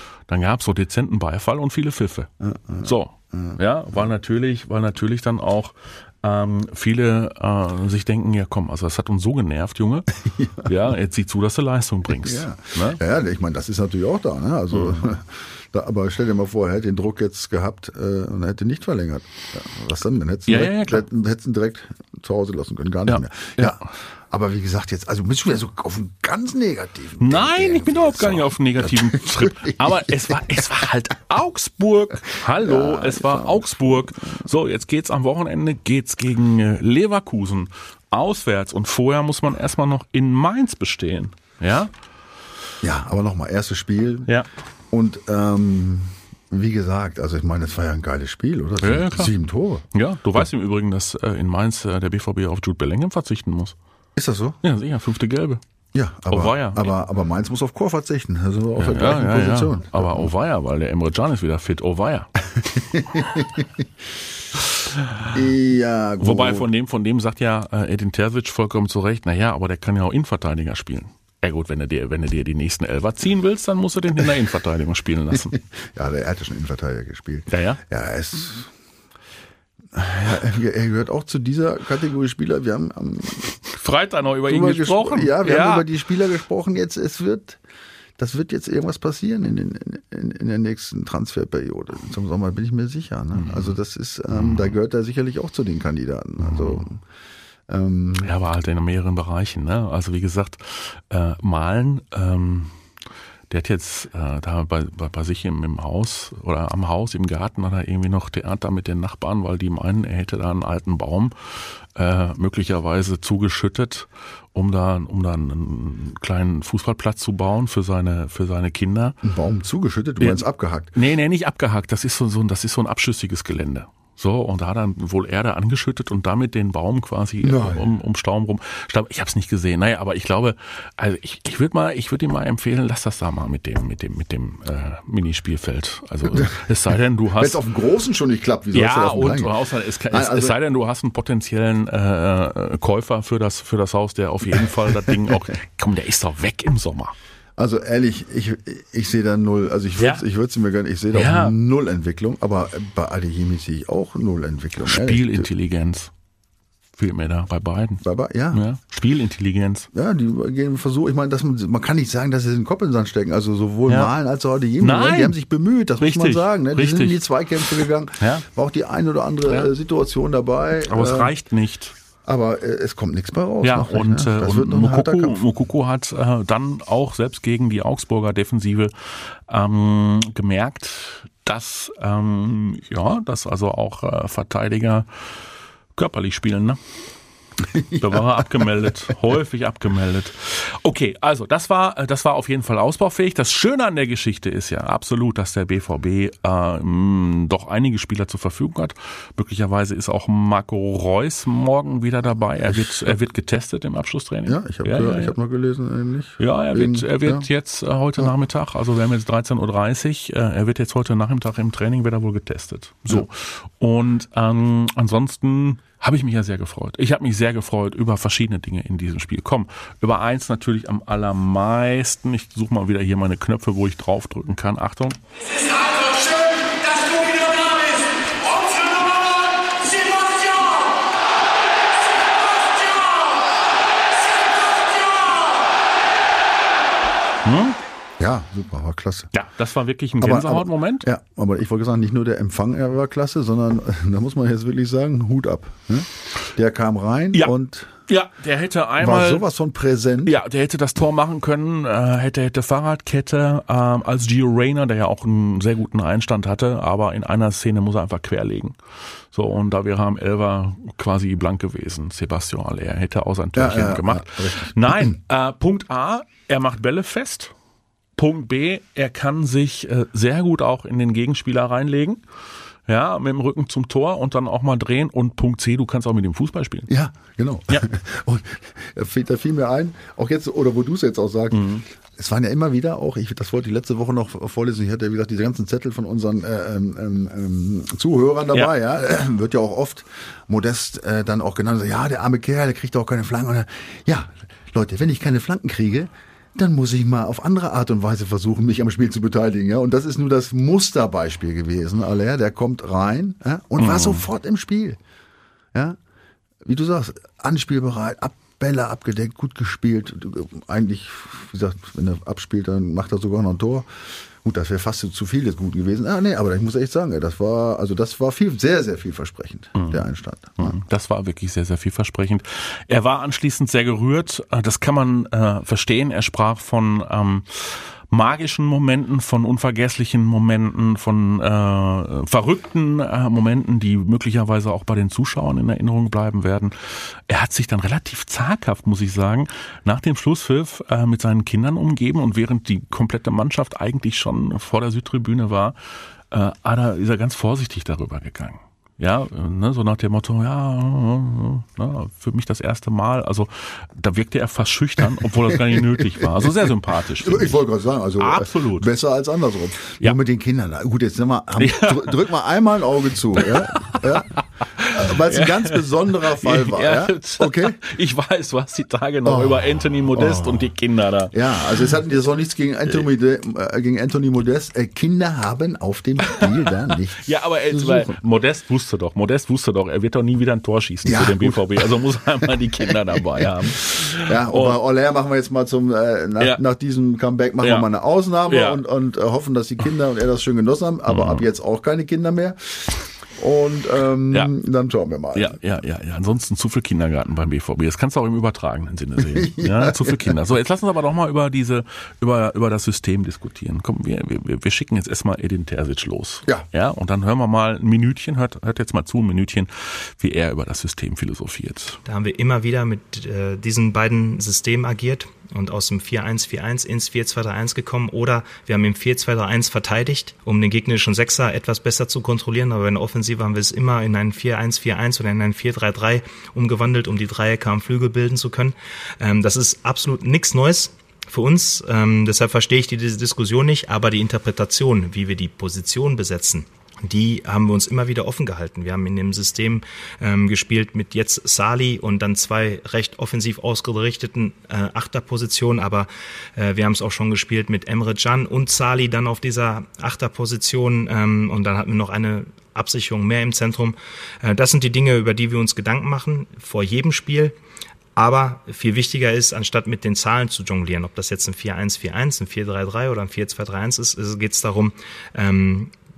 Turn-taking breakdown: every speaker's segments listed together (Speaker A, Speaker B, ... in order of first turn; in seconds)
Speaker A: 0.3-2.3, 2.8-10.1, 10.6-13.0, 14.7-15.1, 20.5-21.0, 23.1-23.8, 27.2-41.9, 48.8-49.3, 49.9-53.8, 54.6-55.6, 56.3-56.9, 58.8-62.8, 65.0-65.3, 66.2-75.6, 77.5-77.8, 83.6-85.9, 93.3-93.8, 94.3-94.7, 96.4-96.9, 98.2-102.7, 103.5-119.2, 120.2-137.6, 138.7-147.1, 150.0-150.2, 151.1-151.5, 154.8-156.1, 157.0-159.9, 163.9-164.1, 164.8-165.4, 166.0-167.2, 168.2-168.4, 170.9-171.9, 173.6-185.1, 185.9-186.8, 188.0-205.3, 206.4-225.2, 227.0-228.0, 237.4-237.8, 239.3-241.1, 248.1-249.4, 250.2-258.8, 259.3-267.5, 268.1-272.2, 272.9-276.9, 281.5-281.9, 303.8-304.2, 319.8-320.0, 320.6-345.8, 346.3-357.6, 358.2-358.9, 361.6-362.2, 363.4-371.4, 377.2-384.8, 388.4-388.8, 391.1-391.4, 395.4-412.0
Speaker B: 2.4-3.6, 10.2-10.7, 12.1-30.7, 32.3-34.4, 42.8-44.3, 44.9-49.9, 54.1-54.6, 55.9-60.3, 62.7-63.8, 65.3-66.7, 75.3-78.7, 79.9-83.5, 84.5-87.6, 88.2-97.0, 97.7-98.3, 119.2-121.0, 127.4-127.9, 136.3-136.6, 137.4-139.6, 140.1-140.6, 144.5-145.4, 147.6-155.5, 158.0-158.6, 159.9-171.3, 172.2-175.4, 187.6-188.7, 202.7-203.0, 204.5-207.5, 238.2-239.3, 240.2-247.9, 249.0-250.4, 263.5-265.2, 276.9-305.0, 306.6-313.9, 314.4-320.8, 355.5-367.8, 369.2-370.7, 371.3-378.1, 381.1-381.9, 382.4-395.6, 399.2-400.4
Speaker C: 412.1-457.6, 458.1-465.9